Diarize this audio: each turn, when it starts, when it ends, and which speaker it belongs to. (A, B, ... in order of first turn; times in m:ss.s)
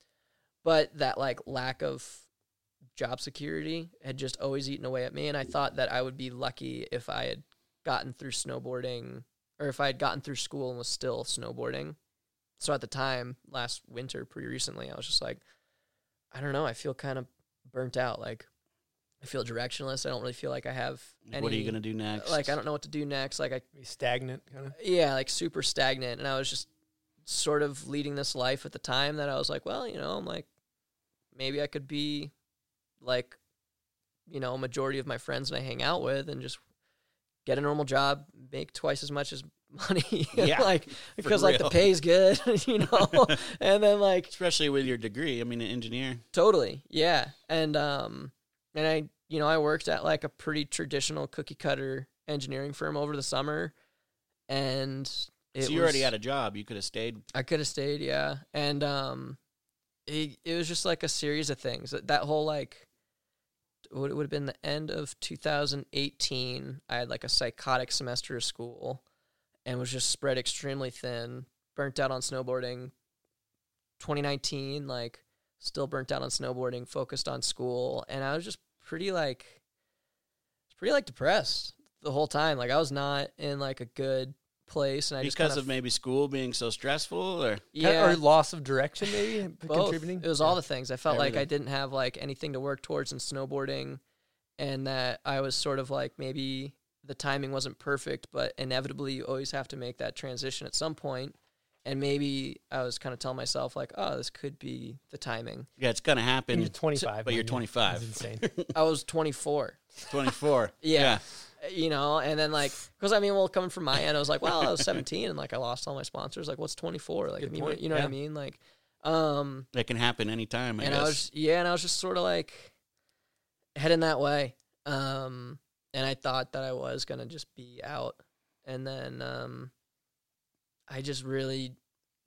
0:00.6-0:02.2 A
0:03.0-0:12.0 A
0:12.6-0:15.4 A
0:16.3-0:18.5 A
0:19.2-0:23.6 A
0:21.3-0:22.6 B
0:23.7-0:24.7 C
0:24.8-0:26.7 A
0:27.2-0:30.5 A
0:31.3-0:32.3 A
0:33.0-0:33.4 A
0:34.3-0:36.6 A
0:37.4-0:44.3 A
0:40.3-0:41.8 B
0:43.0-0:43.3 B
0:44.3-0:46.2 B
0:46.3-0:53.7 A
0:54.5-0:56.1 A
0:55.6-0:57.2 B
0:57.3-0:59.4 A
1:00.1-1:02.8 A
1:03.9-1:09.0 A
1:09.6-1:12.9 A
1:14.0-1:19.6 A
1:20.7-1:25.7 A
1:25.2-1:27.7 B
1:27.7-1:28.2 A
1:27.8-1:30.5 C
1:29.6-1:34.0 A
1:31.1-1:31.4 B
1:34.6-1:45.7 A
1:45.8-1:48.7 B
1:46.5-1:48.5 C
1:48.7-1:49.8 A
1:50.1-1:51.2 B
1:50.8-1:59.7 A
1:57.4-1:58.1 C
1:59.7-2:01.2 B
2:00.8-2:02.7 A
2:03.8-2:09.7 A
2:10.9-2:11.8 A